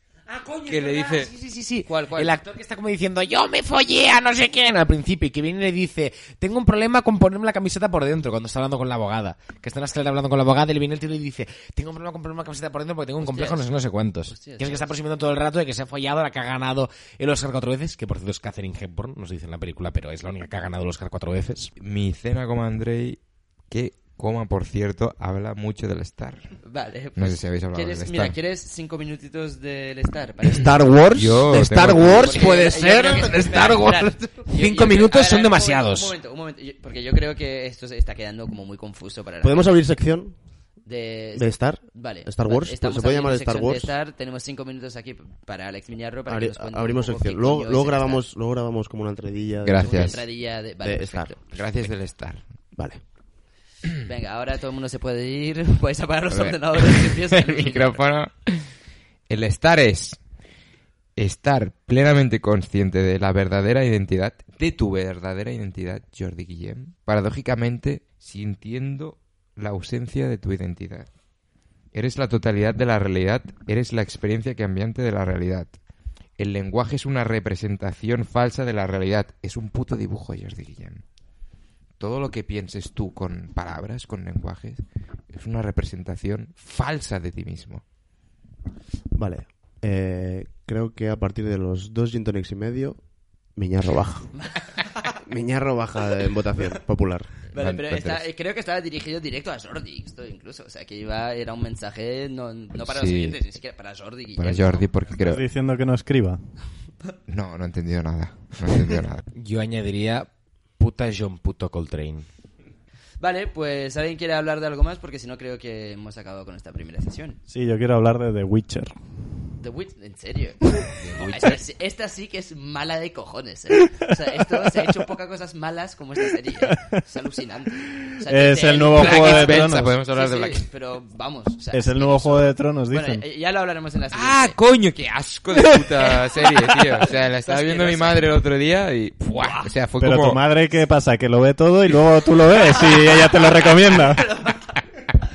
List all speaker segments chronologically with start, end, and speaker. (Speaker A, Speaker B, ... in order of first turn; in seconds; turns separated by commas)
Speaker A: 0.3-21.7, Speaker B: 0.7-1.3, Speaker C: 1.9-2.4, Speaker C: 13.2-13.7, Speaker C: 14.3-14.9, Speaker B: 21.8-23.2, Speaker B: 23.7-26.5, Speaker C: 26.6-30.8, Speaker B: 27.1-28.4, Speaker D: 30.5-32.4, Speaker B: 31.1-32.6, Speaker A: 31.5-36.1, Speaker C: 32.0-39.8, Speaker D: 39.4-40.4, Speaker C: 40.9-48.2, Speaker D: 41.4-43.9, Speaker D: 46.3-50.2, Speaker B: 49.6-50.2, Speaker C: 49.8-51.4, Speaker D: 50.8-51.4, Speaker B: 51.5-52.4, Speaker D: 52.8-53.0, Speaker C: 54.0-58.0, Speaker B: 56.3-58.7, Speaker B: 59.3-60.2, Speaker B: 61.1-71.1, Speaker B: 71.9-75.7, Speaker B: 76.4-81.0, Speaker B: 82.0-87.8, Speaker D: 89.1-93.0, Speaker D: 93.6-94.3, Speaker C: 94.3-95.1, Speaker D: 95.1-97.5, Speaker C: 97.5-104.9, Speaker B: 97.5-98.3, Speaker B: 102.8-103.4, Speaker B: 104.4-105.4, Speaker E: 105.1-106.4, Speaker B: 107.3-109.3, Speaker A: 109.3-112.3, Speaker C: 113.2-117.4, Speaker E: 117.5-119.0, Speaker C: 119.6-134.6, Speaker B: 121.0-121.6, Speaker E: 126.6-127.0, Speaker E: 127.9-130.0, Speaker B: 128.9-130.7, Speaker E: 131.7-133.2, Speaker B: 134.1-140.4, Speaker C: 136.0-138.3, Speaker E: 140.0-144.3, Speaker C: 142.8-144.8